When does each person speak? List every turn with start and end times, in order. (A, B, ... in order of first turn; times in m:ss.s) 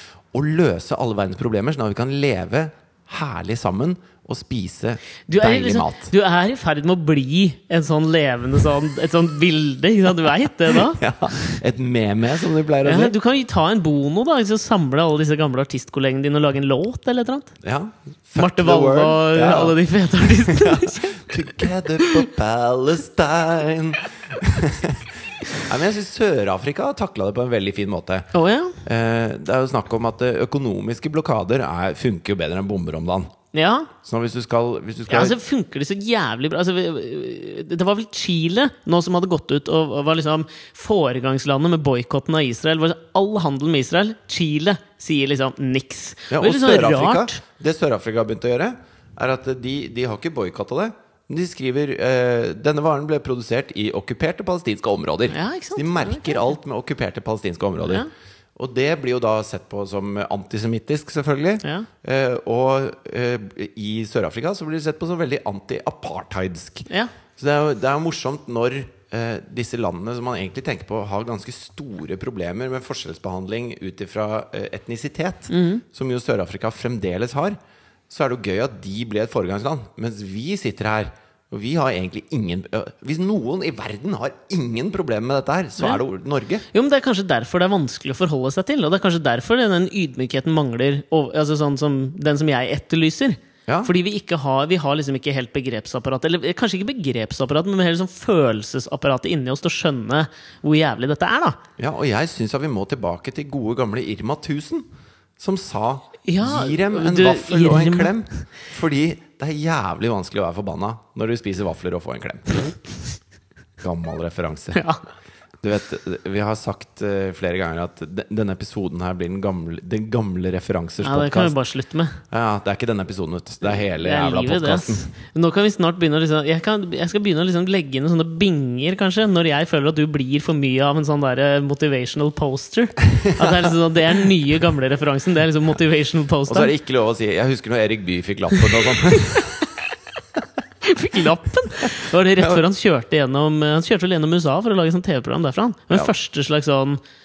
0:00.3-0:06.1 A
0:05.3-0:11.0 B
0:10.7-0:13.2 A
0:12.8-0:17.6 B
0:17.6-0:28.3 A
0:18.4-0:21.3 B
0:22.0-0:22.2 B
0:28.3-0:28.8 B
0:28.8-0:33.3 A
0:33.5-0:33.9 B
0:34.0-0:35.4 A
0:35.1-0:47.4 B
0:46.3-1:17.6 A
0:55.3-0:56.4 B
0:57.8-0:58.1 B
1:01.6-1:01.9 B
1:15.5-1:15.8 B
1:18.1-1:26.7 A
1:26.7-1:41.6 B
1:41.8-1:44.9 A
1:45.4-1:52.8 A
1:46.2-1:48.2 B
1:53.8-1:54.8 A
1:54.7-1:55.0 B
1:55.6-2:01.6 A
2:01.0-2:02.2 B
2:02.3-2:05.1 A
2:03.6-2:16.7 B
2:13.2-2:13.7 A
2:16.5-2:19.6 A
2:20.8-2:27.0 B
2:21.9-2:22.6 A